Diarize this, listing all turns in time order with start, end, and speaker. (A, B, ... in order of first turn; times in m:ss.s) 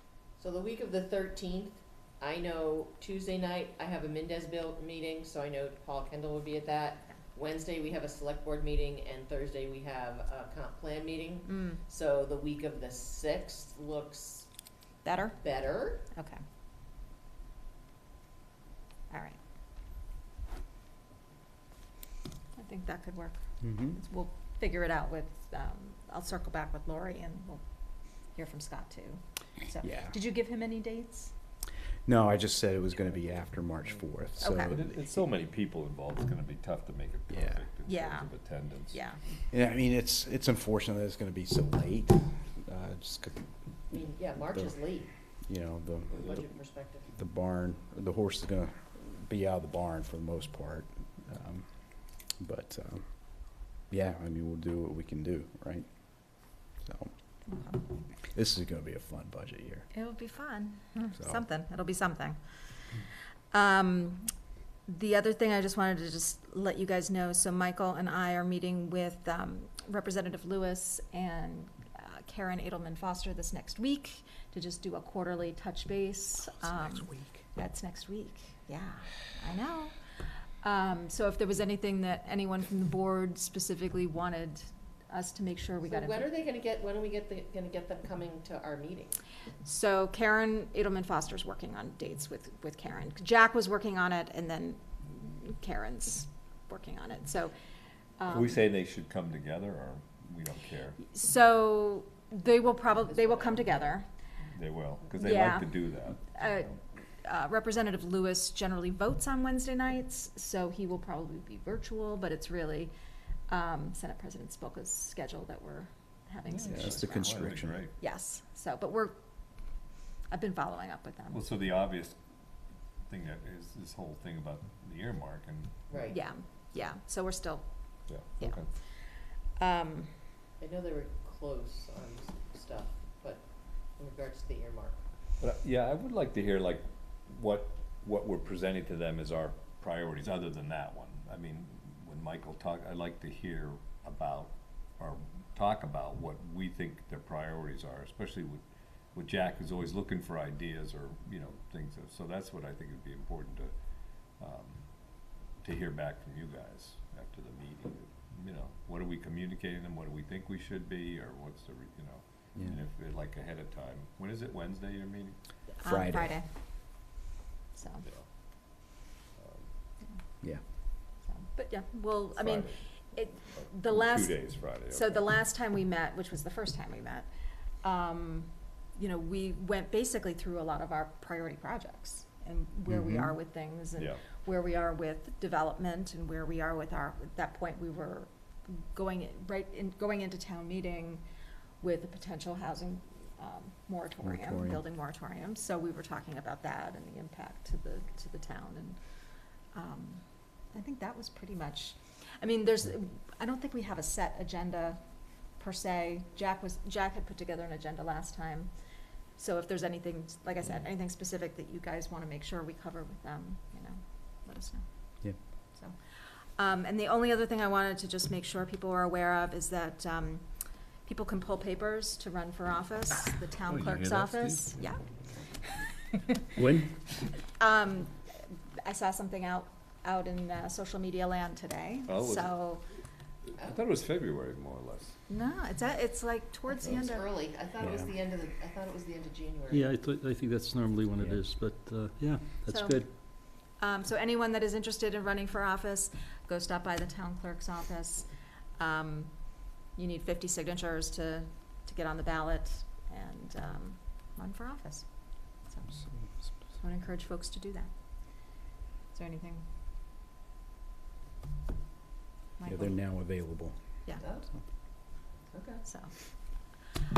0:00.4-0:14.5 A
0:11.5-0:11.8 B
0:15.0-0:15.4 B
0:15.4-0:16.0 A
0:16.1-0:16.4 B
0:19.1-0:19.4 B
0:22.6-0:27.6 B
0:23.6-0:24.0 C
0:28.3-0:31.3 B
0:29.8-0:30.1 C
0:32.0-0:34.9 C
0:34.4-0:34.8 B
0:34.5-0:39.0 D
0:37.9-0:38.3 B
0:38.9-0:39.2 B
0:39.5-0:43.4 C
0:43.9-0:45.1 A
0:45.4-0:46.4 C
0:46.1-0:47.1 A
0:47.1-0:57.1 C
0:57.5-0:57.8 B
0:58.3-0:59.8 C
0:59.9-1:02.4 B
1:01.2-1:01.4 C
1:03.5-1:04.3 B
1:04.9-1:20.0 B
1:17.0-1:17.3 C
1:20.6-1:26.3 B
1:25.8-1:29.2 A
1:29.6-1:37.5 B
1:38.2-1:38.5 B
1:38.3-1:41.0 D
1:41.0-1:44.1 B
1:42.9-1:43.9 A
1:44.5-1:46.8 D
1:45.2-1:52.9 B
1:53.5-1:57.4 B
1:56.5-1:57.9 D
1:56.7-1:57.8 C
1:58.0-1:59.2 B
2:00.3-2:01.4 B
2:01.3-2:02.2 D
2:03.1-2:06.0 D
2:05.9-2:06.2 A
2:06.1-2:07.6 B
2:08.1-2:08.7 D
2:09.6-2:10.1 B
2:10.6-2:15.0 A
2:15.4-2:33.7 D
2:34.4-2:34.9 D
2:35.6-2:45.4 D
2:45.8-2:46.5 B
2:45.8-2:46.4 C
2:47.7-2:48.0 B
2:49.4-2:49.7 D
2:51.3-2:57.3 B
2:52.3-2:52.8 D
2:53.5-2:55.3 D
2:57.8-3:11.2 B
3:02.9-3:03.3 C
3:11.8-3:19.0 B
3:14.2-3:14.8 C
3:19.7-3:25.0 B
3:25.6-3:28.7 B
3:29.4-3:34.8 B
3:36.6-3:40.4 B
3:41.0-3:45.0 B
3:43.7-3:44.8 D
3:45.6-3:46.5 B
3:46.6-3:46.9 C
3:47.6-3:48.2 B
3:48.8-3:52.8 B
3:52.1-3:52.6 D
3:53.6-3:55.2 D
3:55.3-3:57.3 B
3:56.7-3:59.9 A
3:57.8-3:58.1 C
3:59.7-4:03.2 E
4:02.7-4:15.0 B
4:16.8-4:17.9 B
4:19.1-4:19.6 B
4:22.6-4:22.9 B
4:22.6-4:23.8 C
4:24.2-4:24.5 A
4:25.5-4:25.8 A
4:25.8-4:26.1 B